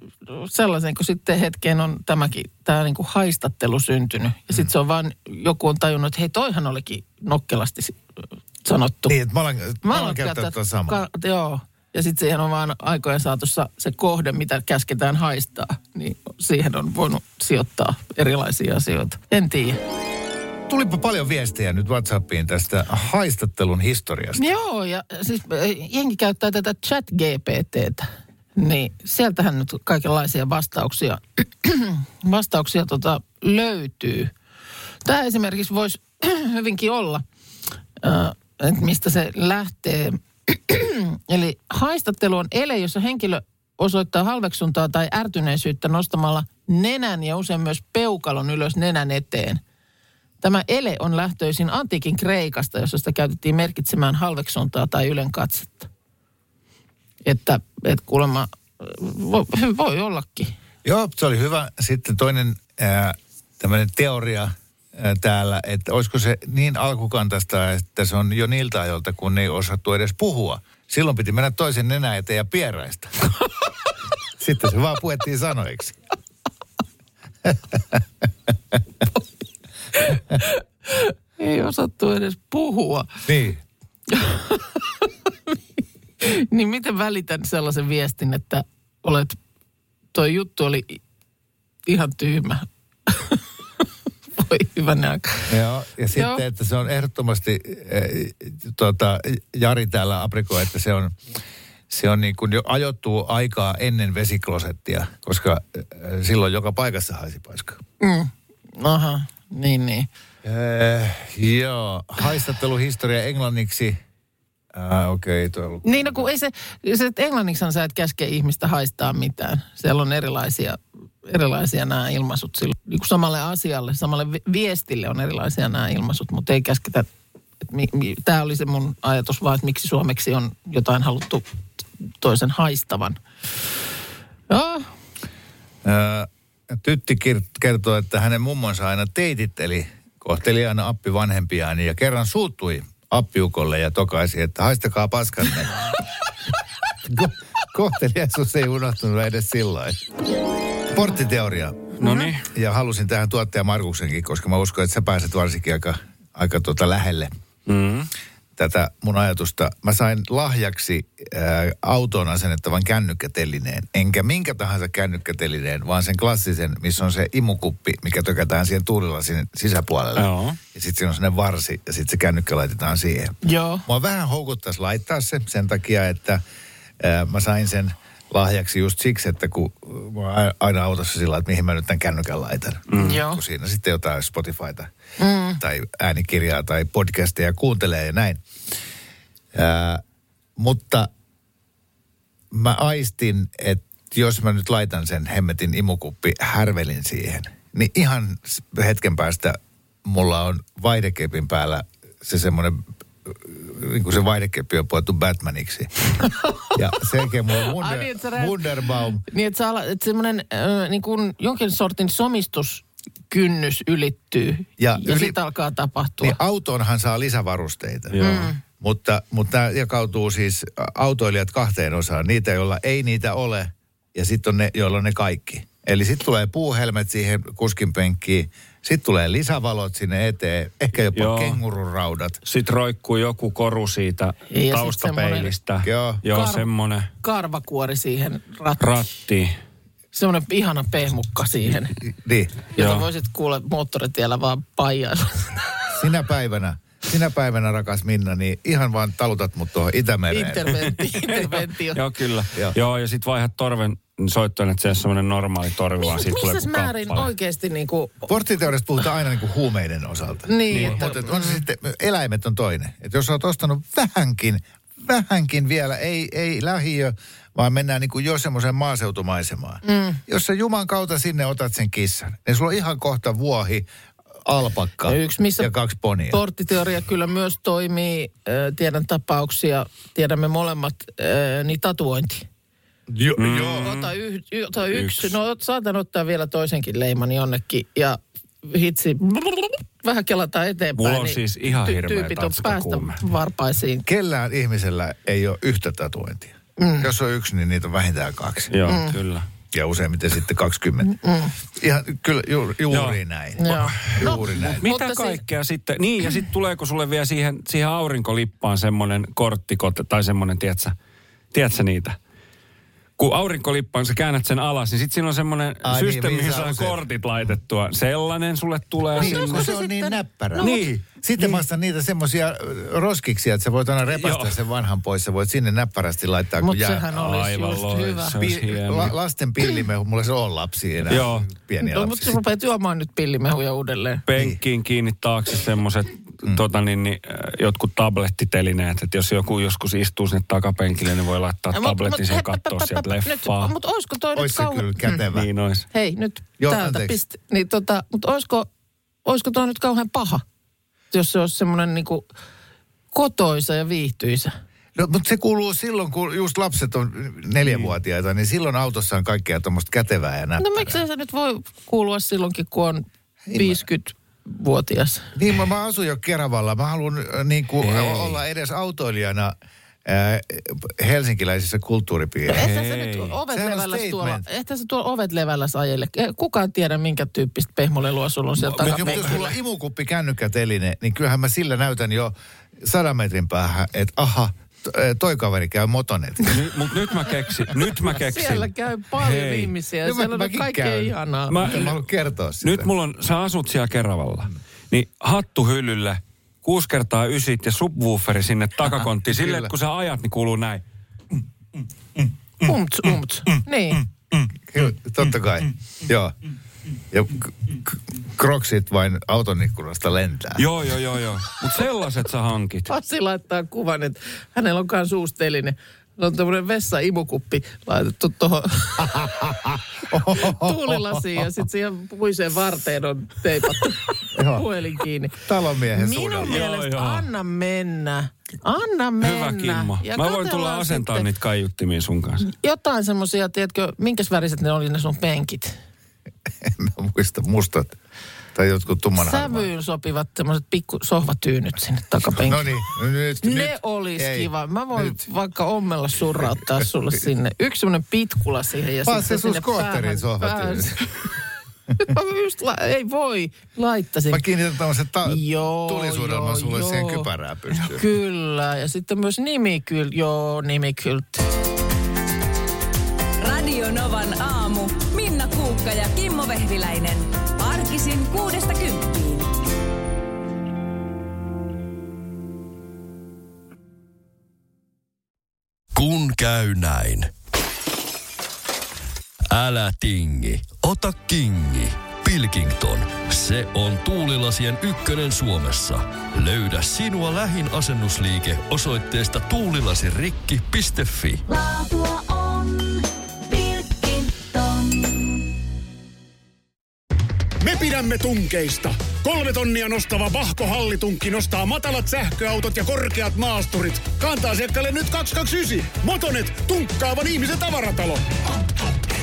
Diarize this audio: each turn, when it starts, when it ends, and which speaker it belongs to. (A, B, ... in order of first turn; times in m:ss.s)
0:00.2-0:08.0 A
0:08.6-0:09.2 A
0:09.1-0:11.0 B
0:09.8-0:19.8 A
0:20.7-0:24.5 B
0:24.4-0:34.3 A
0:35.0-0:37.2 A
0:38.0-0:49.6 A
0:50.4-0:55.9 A
0:57.2-1:00.5 A
1:00.8-1:13.2 B
1:14.4-1:16.0 B
1:17.4-1:18.0 B
1:20.0-1:23.1 A
1:23.3-1:23.6 B
1:24.1-1:29.4 A
1:30.1-1:31.0 A
1:31.9-1:33.4 A
1:34.4-1:35.5 A
1:35.5-1:41.2 B
1:36.1-1:36.4 A
1:41.9-1:47.8 B
1:48.0-1:50.1 A
1:50.4-1:54.0 B
1:54.7-1:56.3 B
1:55.8-2:07.1 A
2:07.6-2:13.2 A
2:14.5-2:14.9 A
2:15.8-2:25.7 B
2:27.0-2:30.0 B
2:30.9-2:37.3 B
2:32.0-2:32.5 C
2:32.0-2:32.3 A
2:37.7-2:38.1 C
2:38.6-2:56.4 B
2:50.2-2:50.6 C
2:53.4-2:53.8 A
2:57.0-3:04.9 B
3:02.9-3:03.2 C
3:03.0-3:03.4 A
3:05.2-3:05.6 A
3:05.6-3:08.4 B
3:09.5-3:10.0 B
3:10.6-3:11.1 B
3:12.5-3:25.9 B
3:26.3-3:26.7 A
3:26.7-3:29.2 B
3:27.5-3:36.4 A
3:34.8-3:35.4 B
3:36.2-3:38.2 B
3:38.1-3:38.5 C
3:38.2-3:38.6 A
3:38.8-3:52.4 B
3:51.2-3:51.6 C
3:52.4-3:57.1 C
3:54.5-3:55.5 A
3:55.8-3:56.2 B
3:56.3-3:56.7 A
3:57.2-3:59.1 A
3:58.8-3:59.5 C
4:00.1-4:02.0 A
4:02.0-4:02.6 B
4:02.7-4:05.6 A
4:02.8-4:03.1 C
4:05.9-4:10.8 B
4:10.3-4:12.0 A
4:11.0-4:17.3 C
4:16.0-4:18.3 A
4:18.3-4:33.9 B
4:20.5-4:21.6 A
4:20.7-4:21.1 C
4:29.8-4:30.2 A
4:34.4-4:36.4 B
4:35.1-4:35.7 A
4:36.3-4:42.5 A
4:43.1-4:43.9 B
4:43.4-4:44.1 C
4:43.8-4:54.0 A
4:44.9-4:45.4 C
4:51.0-4:53.2 C
4:54.0-4:58.7 B
4:56.8-4:57.1 A
4:58.7-4:59.5 C
4:58.9-4:59.2 A
4:59.7-5:04.8 B
5:01.0-5:01.6 A
5:02.9-5:03.2 C
5:03.6-5:05.4 A
5:04.8-5:11.0 C
5:11.5-5:12.2 C
5:13.2-5:19.7 C
5:15.8-5:17.0 B
5:19.2-5:27.3 B
5:19.2-5:20.8 A
5:20.6-5:21.0 C
5:24.1-5:24.6 C
5:26.6-5:28.4 A
5:27.2-5:29.2 C
5:28.3-5:32.4 B
5:31.1-5:31.5 C
5:31.8-5:34.2 A
5:34.3-5:43.7 C
5:41.7-5:45.2 A
5:44.4-5:45.5 B
5:45.3-5:45.9 C
5:45.9-5:48.7 A
5:46.6-5:47.2 B
5:49.2-5:50.4 A
5:51.1-5:52.3 A
5:53.1-5:54.5 A
5:55.0-6:01.0 B
6:00.6-6:05.3 A
6:03.5-6:03.8 B
6:05.4-6:12.7 B
6:07.8-6:08.4 C
6:12.5-6:19.6 A
6:12.5-6:13.3 C
6:13.5-6:14.4 B
6:18.6-6:26.6 B
6:18.8-6:19.4 C
6:26.5-6:29.7 C
6:28.1-6:31.6 A
6:30.0-6:32.9 B
6:31.5-6:32.0 C
6:32.6-6:40.8 C
6:38.9-6:39.7 B
6:42.6-6:44.0 A
6:44.7-6:46.4 B
6:47.1-6:50.7 B
6:50.6-6:52.9 C
6:52.9-7:05.4 A
6:59.0-7:01.5 B
7:04.3-7:04.7 B
7:05.4-7:06.6 B
7:05.9-7:11.3 A
7:06.5-7:07.3 C
7:09.2-7:12.4 C
7:12.4-7:15.8 A
7:16.6-7:18.0 B
7:18.5-7:19.7 B
7:19.2-7:22.7 A
7:22.4-7:25.2 B
7:23.4-7:31.1 A
7:29.0-7:31.1 B
7:32.0-7:34.4 A
7:34.3-7:38.1 B
7:35.2-7:41.5 A
7:43.4-7:49.5 D
7:55.9-7:57.3 E
7:59.5-8:11.4 E
8:11.5-8:15.5 F
8:17.6-8:28.3 G